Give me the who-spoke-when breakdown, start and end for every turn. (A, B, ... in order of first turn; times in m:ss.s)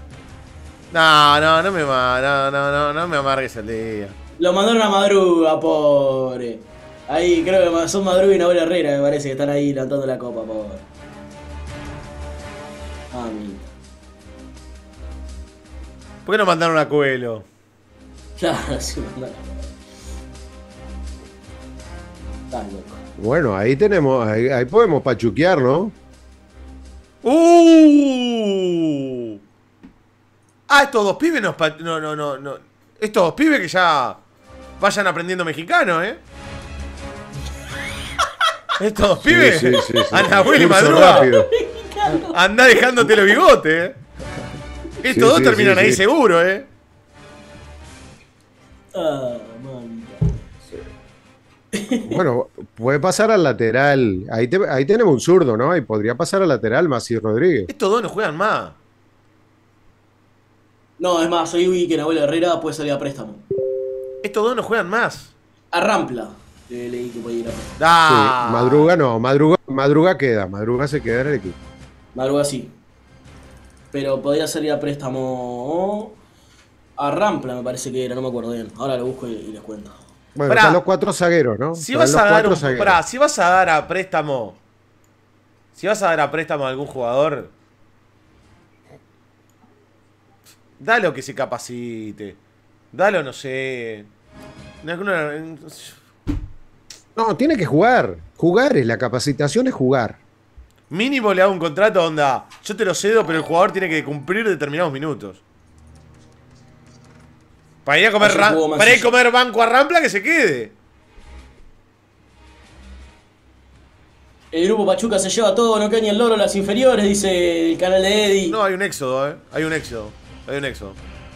0:00.9-0:04.1 A
0:04.4-0:10.8 B
0:13.1-0:13.7 B
0:16.2-0:17.4 A
0:18.4-0:19.7 B
0:22.5-0:23.0 B
0:23.2-0:25.9 C
0:27.2-0:29.4 A
0:30.7-0:34.2 A
0:34.8-0:36.2 A
0:38.8-0:41.3 A
0:39.2-0:41.5 C
0:40.5-0:43.3 B
0:42.3-0:44.0 A
0:45.0-0:46.7 A
0:45.1-0:46.0 C
0:48.9-0:50.3 B
0:51.7-0:52.2 B
0:52.0-0:57.7 C
0:57.7-0:58.8 A
1:01.0-1:03.4 B
1:04.2-1:05.3 A
1:05.7-1:07.7 B
1:07.8-1:08.9 A
1:08.0-1:11.6 C
1:12.1-1:12.7 B
1:13.9-1:16.2 B
1:17.0-1:19.9 B
1:20.4-1:23.0 C
1:20.5-1:20.8 A
1:21.8-1:24.6 A
1:25.7-1:27.5 A
1:30.8-1:32.4 A
1:32.9-1:34.1 A
1:34.8-1:36.0 A
1:37.2-1:40.2 C
1:40.9-1:45.4 A
1:47.8-1:50.7 A
1:48.2-1:49.1 B
1:54.5-1:58.6 B
1:58.5-2:01.0 A